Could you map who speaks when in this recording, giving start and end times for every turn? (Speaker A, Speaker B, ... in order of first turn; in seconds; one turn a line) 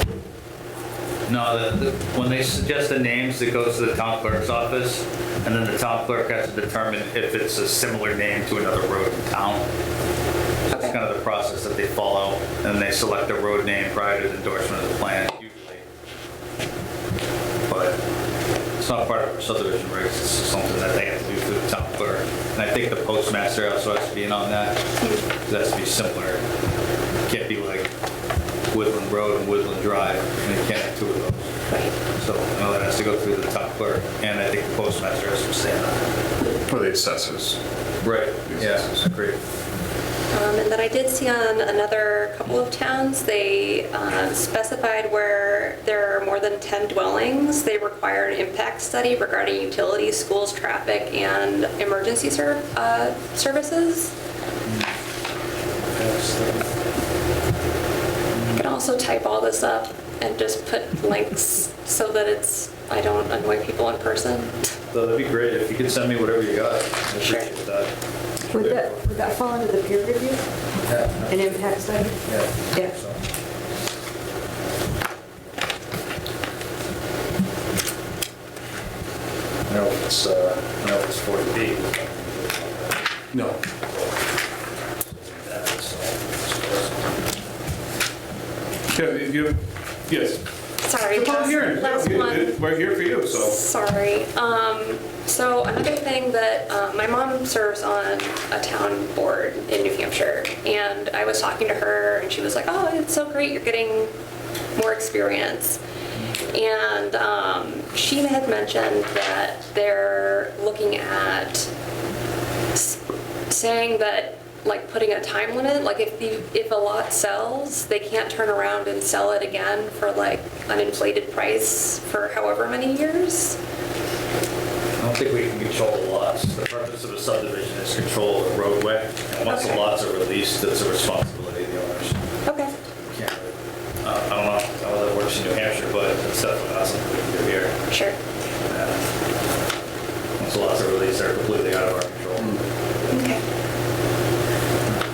Speaker A: 1.3-9.7
Speaker A: 10.7-15.8
Speaker B: 10.7-10.9
Speaker A: 17.7-18.0
Speaker A: 18.8-24.8
Speaker A: 25.4-26.4
Speaker A: 27.2-27.9
Speaker A: 28.7-31.5
Speaker B: 31.7-31.9
Speaker A: 32.1-36.1
Speaker C: 36.7-37.6
Speaker A: 38.0-39.4
Speaker C: 38.3-39.1
Speaker B: 40.3-54.1
Speaker A: 54.6-54.9
Speaker A: 55.9-56.7
Speaker A: 58.3-58.6
Speaker B: 58.5-64.5
Speaker A: 64.9-67.9
Speaker D: 68.5-70.4
Speaker A: 68.5-69.3
Speaker A: 70.8-73.2
Speaker D: 71.3-72.2
Speaker A: 79.7-84.2
Speaker A: 85.0-87.2
Speaker C: 88.9-90.4
Speaker B: 90.8-92.6
Speaker C: 91.1-93.5
Speaker B: 93.3-104.1
Speaker B: 104.8-105.8
Speaker B: 106.5-111.7
Speaker B: 113.5-123.6
Speaker A: 125.0-132.2
Speaker B: 129.5-129.9
Speaker B: 132.4-132.7
Speaker A: 133.1-137.8
Speaker B: 137.9-138.2
Speaker A: 138.7-139.0
Speaker A: 140.4-143.1
Speaker B: 143.1-143.4